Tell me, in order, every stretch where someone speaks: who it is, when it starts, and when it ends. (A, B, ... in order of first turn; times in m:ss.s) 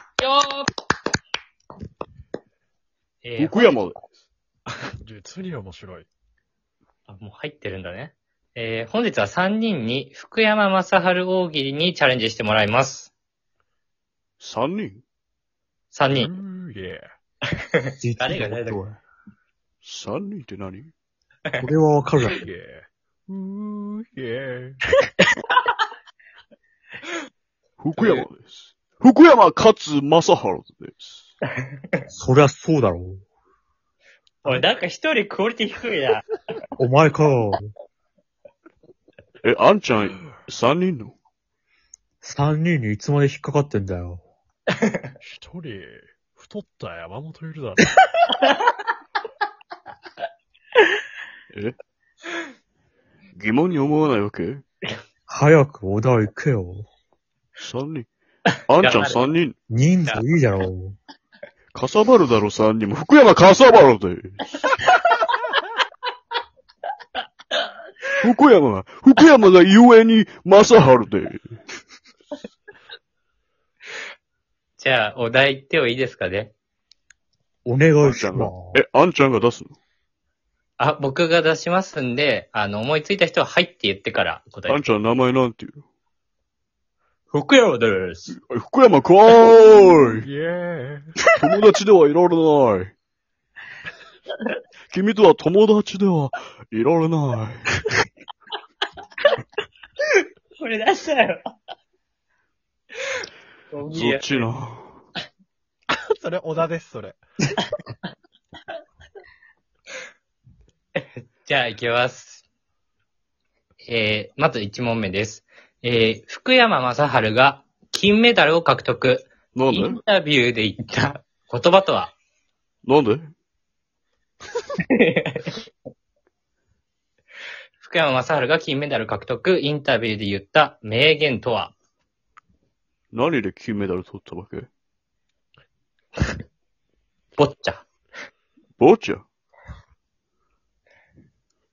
0:00.2-0:00.7 A
0:03.2-0:03.8 A
0:03.4-0:04.1 B
0:05.0-0:06.1 C
0:07.1-0:13.1 A
0:14.4-0:15.0 B
0:15.9-0:16.3 A
0:16.1-0:17.0 C
0:17.8-0:18.8 A
0:18.0-0:19.0 D
0:19.8-0:20.9 B
0:21.6-0:22.4 D
0:22.3-0:24.8 C
0:27.8-0:31.2 B
0:28.0-0:28.2 A
0:32.1-0:33.2 D
0:34.4-0:36.2 A
0:36.8-0:37.7 D
0:39.4-0:41.1 B
0:42.2-0:44.2 D
0:45.2-0:47.9 C
0:48.3-0:48.6 A
0:53.3-0:54.6 B
0:55.3-0:56.8 D
0:57.6-0:58.1 B
0:58.7-0:59.6 B
0:58.8-0:59.2 A
0:59.7-1:01.0 D
1:01.7-1:04.4 B
1:04.8-1:05.1 A
1:08.2-1:11.4 B
1:14.8-1:16.5 A
1:17.6-1:18.8 D
1:18.0-1:19.8 B
1:20.8-1:24.8 A
1:24.7-1:25.8 B
1:27.3-1:28.4 A
1:28.3-1:30.3 B
1:30.2-1:31.1 C
1:31.4-1:32.9 B
1:34.9-1:37.8 B
1:40.6-1:41.4 A
1:43.7-1:44.5 A
1:43.9-1:45.0 B
1:45.9-1:47.2 C
1:51.0-1:52.4 A
1:53.9-2:02.1 A
1:59.5-2:00.0 B
2:02.8-2:03.3 B
2:04.9-2:05.6 A
2:07.8-2:11.7 A
2:13.1-2:14.7 B
2:17.4-2:17.8 A
2:18.8-2:19.2 B